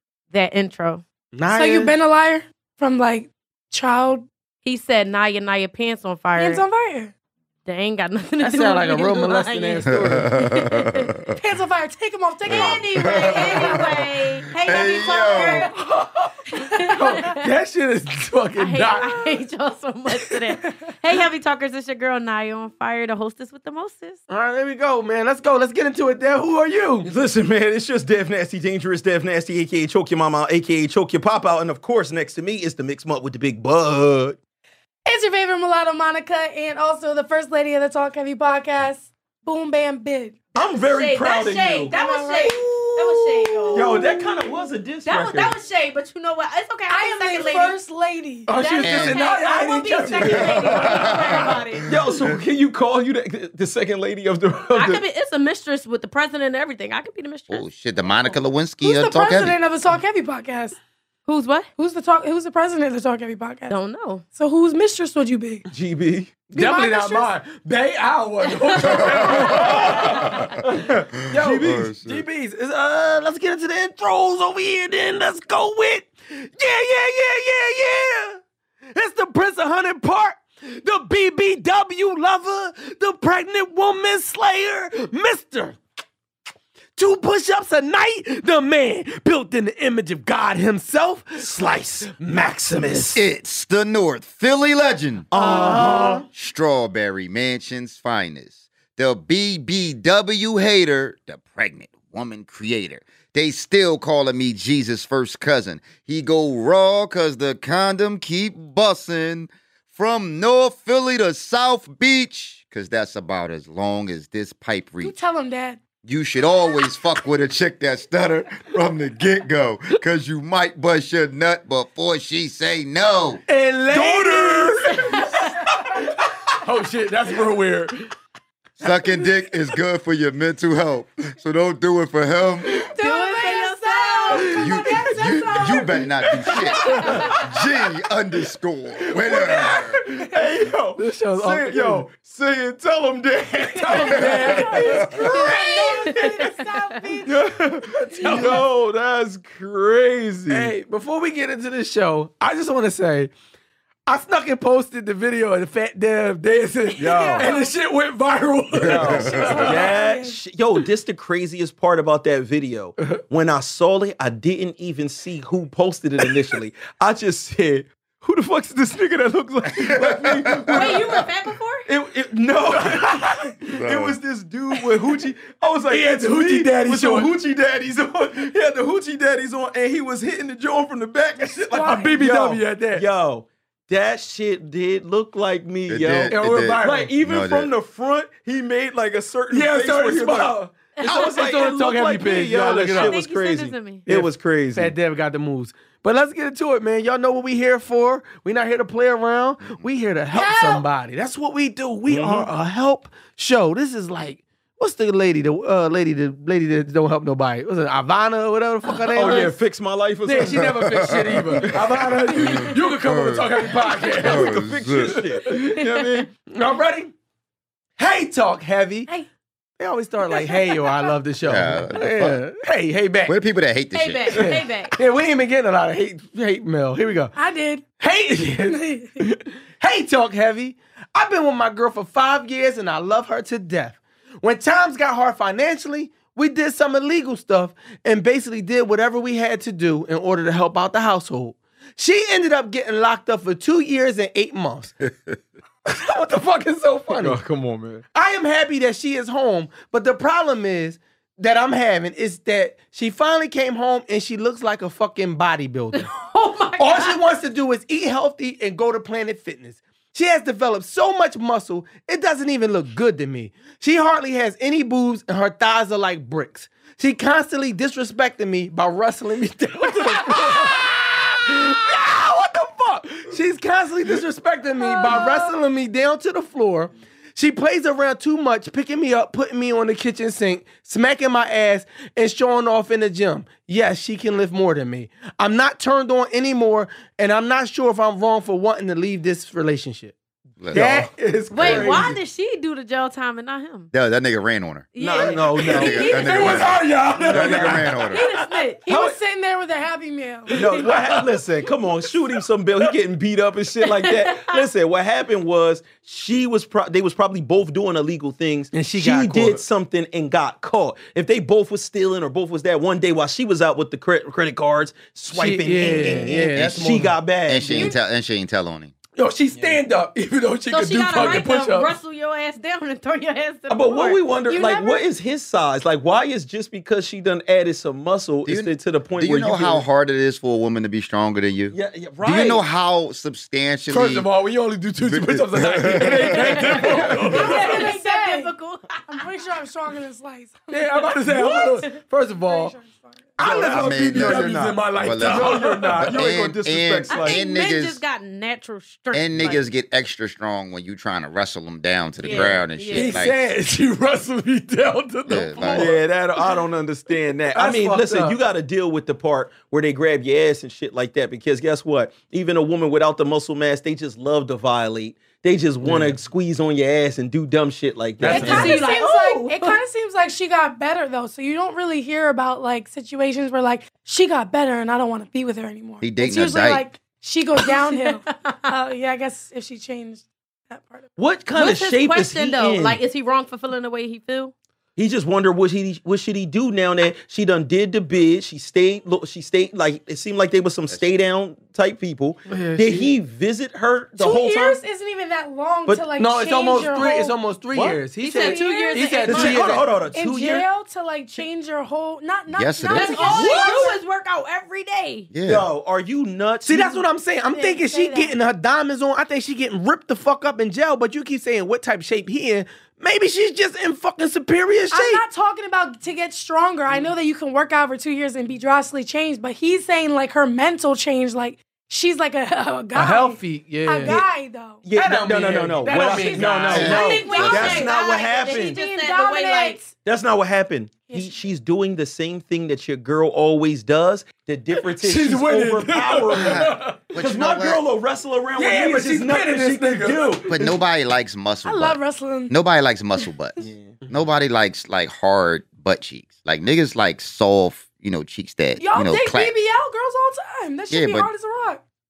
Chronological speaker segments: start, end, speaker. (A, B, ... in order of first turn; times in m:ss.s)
0:00.3-0:01.0 A
0:01.3-0:01.9 B
0:01.5-0:04.3 C
0:04.6-0:06.6 A
0:06.4-0:07.1 C
0:07.6-0:09.9 A
0:08.4-0:10.3 B
0:09.9-0:11.4 D
0:10.4-0:11.0 A
0:11.4-0:14.0 C
0:12.4-0:15.7 D
0:12.5-0:15.7 A
0:15.3-0:15.9 C
0:16.0-0:19.1 B
0:16.5-0:17.4 A
0:18.6-0:24.2 A
0:19.0-0:19.4 C
0:20.6-0:20.9 C
0:24.3-0:27.1 B
0:27.0-0:34.4 E
0:35.0-0:40.5 C
0:40.5-0:41.9 E
0:40.7-0:43.9 A
0:41.9-0:44.5 C
0:43.7-0:45.6 E
0:45.0-0:47.8 A
0:46.9-0:48.5 C
0:48.5-0:51.4 B
0:48.6-0:51.8 A
0:48.8-0:49.2 D
0:50.1-0:51.9 D
0:51.8-0:55.0 E
0:54.7-0:57.6 A
0:57.5-0:59.6 D
0:58.8-1:00.8 C
1:01.2-1:01.7 A
1:01.8-1:05.6 C
1:03.7-1:04.2 A
1:05.7-1:06.4 E
1:06.5-1:07.3 C
1:06.5-1:18.4 B
1:08.8-1:09.6 D
1:09.1-1:10.1 E
1:10.2-1:10.5 D
1:10.6-1:11.9 E
1:11.2-1:12.2 D
1:18.9-1:25.8 B
1:27.0-1:33.2 B
1:31.4-1:32.1 E
1:32.7-1:33.0 E
1:33.1-1:35.3 D
1:35.3-1:36.2 E
1:35.4-1:36.2 B
1:36.3-1:55.1 D
1:55.0-1:55.8 C
1:56.0-2:03.4 D
2:03.5-2:05.2 B
2:03.9-2:04.7 E
2:05.0-2:05.4 C
2:05.0-2:05.4 A
2:05.8-2:08.0 B
2:08.8-2:12.7 D
2:12.8-2:16.0 C
2:13.0-2:14.6 A
2:14.6-2:20.0 D
2:16.0-2:17.2 B
2:16.7-2:17.1 C
2:19.2-2:25.6 E
2:19.3-2:19.6 B
2:21.0-2:22.0 B
2:23.8-2:27.4 C
2:23.9-2:25.9 B
2:24.7-2:25.3 D
2:25.4-2:27.0 A
2:27.2-2:30.7 E
2:27.9-2:28.6 B
2:28.2-2:28.6 C
2:30.5-2:33.3 B
2:34.1-2:39.8 B
2:37.0-2:37.5 E
2:37.0-2:37.7 C
2:38.8-2:51.2 E
2:39.6-2:40.4 C
2:49.8-2:51.2 D
2:50.7-2:51.9 A
2:51.8-3:14.9 E
2:52.8-2:53.5 B
2:53.7-2:54.2 D
2:55.9-2:57.3 B
3:01.4-3:03.0 B
3:01.7-3:02.1 C
3:05.9-3:07.7 D
3:06.3-3:07.1 B
3:09.5-3:13.2 B
3:11.0-3:11.6 A
3:12.9-3:14.1 A
3:14.1-3:29.6 B
3:20.3-3:20.8 C
3:22.1-3:22.5 E
3:29.1-3:32.2 E
3:29.2-3:29.5 A
3:30.2-3:34.5 B
3:30.8-3:31.8 D
3:32.3-3:35.2 D
3:34.0-3:36.3 E
3:35.1-3:35.7 B
3:36.5-3:37.1 B
3:38.0-3:39.1 B
3:39.8-3:43.3 B
3:40.3-3:41.1 C
3:41.4-3:42.4 D
3:43.2-3:44.6 D
3:43.9-3:44.9 A
3:44.4-3:47.4 B
3:47.4-3:47.8 C
3:48.0-4:04.9 B
3:48.6-3:49.2 C
4:05.8-4:07.4 B
4:07.1-4:08.0 E
4:08.1-4:16.1 B
4:15.9-4:17.2 A
4:16.8-4:50.1 B
4:30.2-4:30.4 C
4:34.8-4:35.5 C
4:50.6-4:51.0 D
4:50.7-4:51.1 E
4:50.7-4:52.1 B
4:51.5-4:53.9 A
4:51.6-4:51.9 D
4:51.6-4:52.0 E
4:53.9-4:58.2 D
4:54.9-4:56.8 A
4:55.0-4:58.1 E
4:55.7-4:58.1 B
4:58.1-4:58.8 A
4:58.8-5:00.7 C
4:58.9-4:59.2 E
5:00.5-5:17.9 E
5:00.7-5:01.4 B
5:03.8-5:04.6 A
5:08.7-5:09.6 B
5:15.3-5:17.1 B
5:17.4-5:18.9 D
5:19.2-5:21.9 B
5:19.5-5:19.8 E
5:20.7-5:24.2 A
5:23.7-5:29.8 E
5:24.5-5:25.0 C
5:28.4-5:34.3 D
5:31.7-5:32.6 E
5:33.9-5:37.8 B
5:35.0-5:36.6 D
5:35.6-5:37.6 E
5:36.7-5:39.2 A
5:37.2-5:38.5 C
5:39.1-5:43.4 C
5:40.7-5:42.7 B
5:43.4-5:46.3 B
5:43.4-5:48.0 D
5:43.4-5:47.4 E
5:47.1-5:49.6 A
5:49.1-5:53.5 D
5:52.2-5:53.2 A
5:52.9-5:56.0 B
5:55.2-5:55.9 D
5:55.8-6:08.8 E
5:57.5-5:58.4 B
6:05.8-6:06.2 B
6:08.2-6:08.7 B
6:08.2-6:21.1 C
6:08.3-6:09.8 A
6:16.0-6:16.8 D
6:17.6-6:18.7 A
6:21.2-6:23.0 E
6:21.5-6:24.5 A
6:25.0-6:34.8 E
6:32.5-6:33.1 B
6:34.2-6:37.4 C
6:36.2-6:40.0 B
6:37.7-6:38.0 E
6:38.2-6:39.7 A
6:38.3-6:39.2 C
6:39.2-6:40.6 E
6:40.1-6:44.0 C
6:42.5-6:43.4 D
6:42.9-6:45.3 A
6:43.3-6:43.8 B
6:45.3-6:45.7 D
6:45.4-6:47.0 E
6:46.6-6:55.2 B
6:47.5-6:48.4 C
6:54.9-7:04.8 C
7:02.9-7:04.2 B
7:04.8-7:08.8 E
7:04.9-7:07.0 B
7:05.9-7:09.8 A
7:06.3-7:09.9 C
7:06.7-7:07.9 D
7:10.0-7:20.8 E
7:11.1-7:11.4 C
7:14.7-7:17.0 B
7:16.4-7:17.8 D
7:18.6-7:20.5 B
7:20.5-7:23.6 D
7:21.6-7:22.5 C
7:23.6-7:24.0 E
7:24.1-7:29.5 D
7:28.8-7:31.8 C
7:30.9-7:31.3 D